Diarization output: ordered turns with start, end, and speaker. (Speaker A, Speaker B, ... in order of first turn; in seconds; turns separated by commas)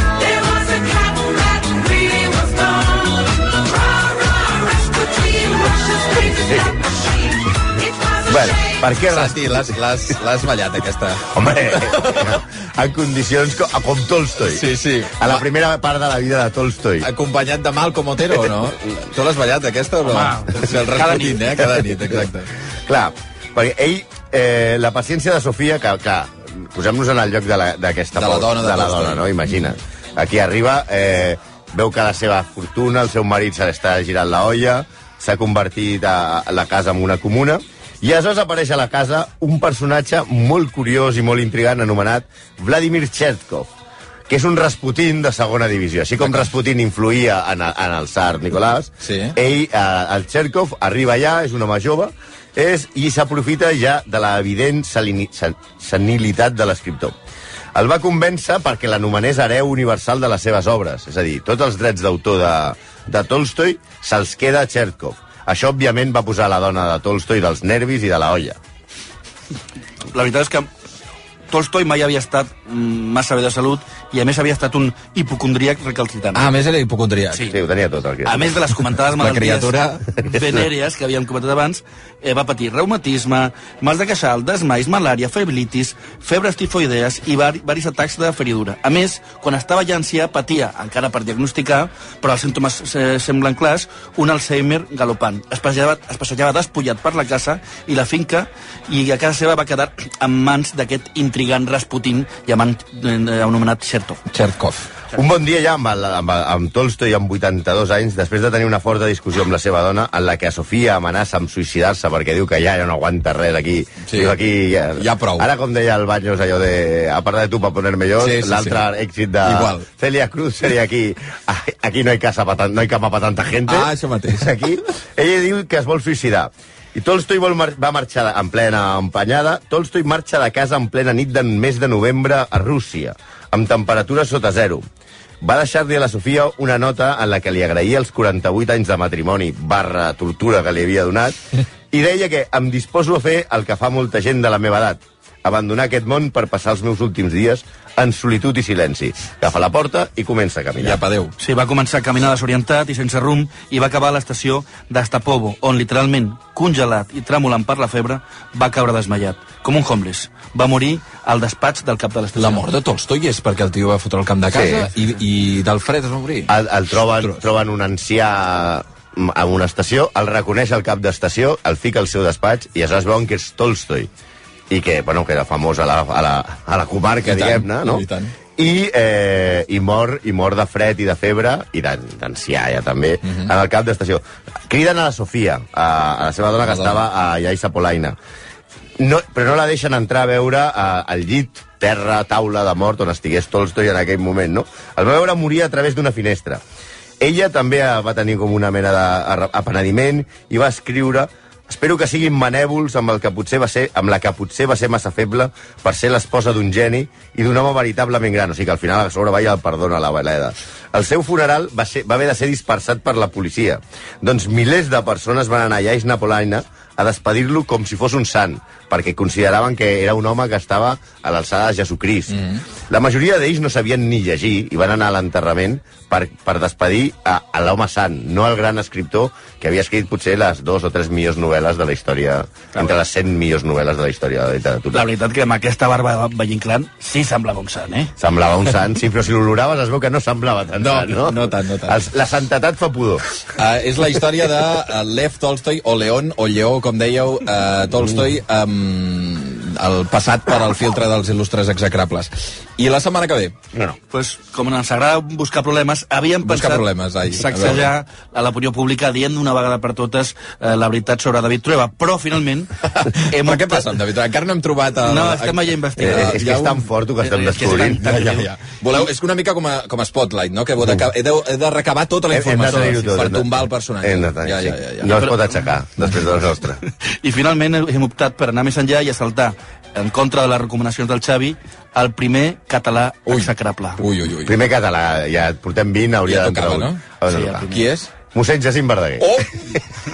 Speaker A: 2.0-2.3, Speaker B: 6.3-6.7, Speaker B: 8.3-9.7, Speaker C: 9.0-12.3, Speaker B: 11.3-14.7, Speaker C: 14.5-15.4, Speaker B: 15.2-17.1, Speaker C: 17.0-22.5, Speaker A: 20.0-21.7, Speaker B: 22.9-43.7, Speaker C: 28.1-29.4, Speaker B: 44.3-57.1, Speaker C: 46.2-46.5, Speaker C: 49.0-49.4, Speaker B: 57.7-68.6, Speaker A: 70.1-70.7, Speaker A: 71.5-76.5, Speaker C: 76.3-77.5, Speaker A: 77.3-77.6, Speaker B: 77.5-78.5, Speaker A: 78.2-104.2, Speaker C: 79.2-80.5, Speaker C: 104.3-104.8, Speaker B: 105.1-134.8, Speaker C: 114.1-114.3, Speaker C: 115.0-115.5, Speaker C: 118.2-118.8, Speaker C: 119.4-119.8, Speaker C: 123.7-124.5, Speaker B: 135.4-141.4, Speaker B: 141.9-151.0, Speaker C: 150.8-151.3, Speaker A: 151.4-162.7, Speaker C: 162.3-166.5, Speaker B: 164.5-164.9, Speaker B: 166.5-174.1, Speaker C: 167.0-167.4, Speaker B: 174.7-188.2, Speaker C: 177.2-178.3, Speaker C: 186.6-187.0, Speaker B: 189.0-196.6, Speaker B: 197.2-235.0, Speaker A: 234.9-238.1, Speaker B: 238.2-243.3, Speaker C: 240.8-242.0, Speaker C: 243.6-253.6, Speaker A: 254.1-263.9, Speaker C: 256.4-257.9, Speaker C: 262.9-266.8, Speaker A: 265.0-266.5, Speaker B: 266.0-268.1, Speaker A: 267.2-268.5, Speaker C: 267.6-275.1, Speaker B: 272.3-273.5, Speaker B: 274.0-276.8, Speaker A: 275.1-275.7, Speaker A: 276.9-284.0, Speaker C: 283.3-284.6, Speaker B: 284.4-287.7, Speaker C: 286.2-288.1, Speaker A: 287.3-287.8, Speaker B: 288.3-289.3, Speaker C: 289.2-289.9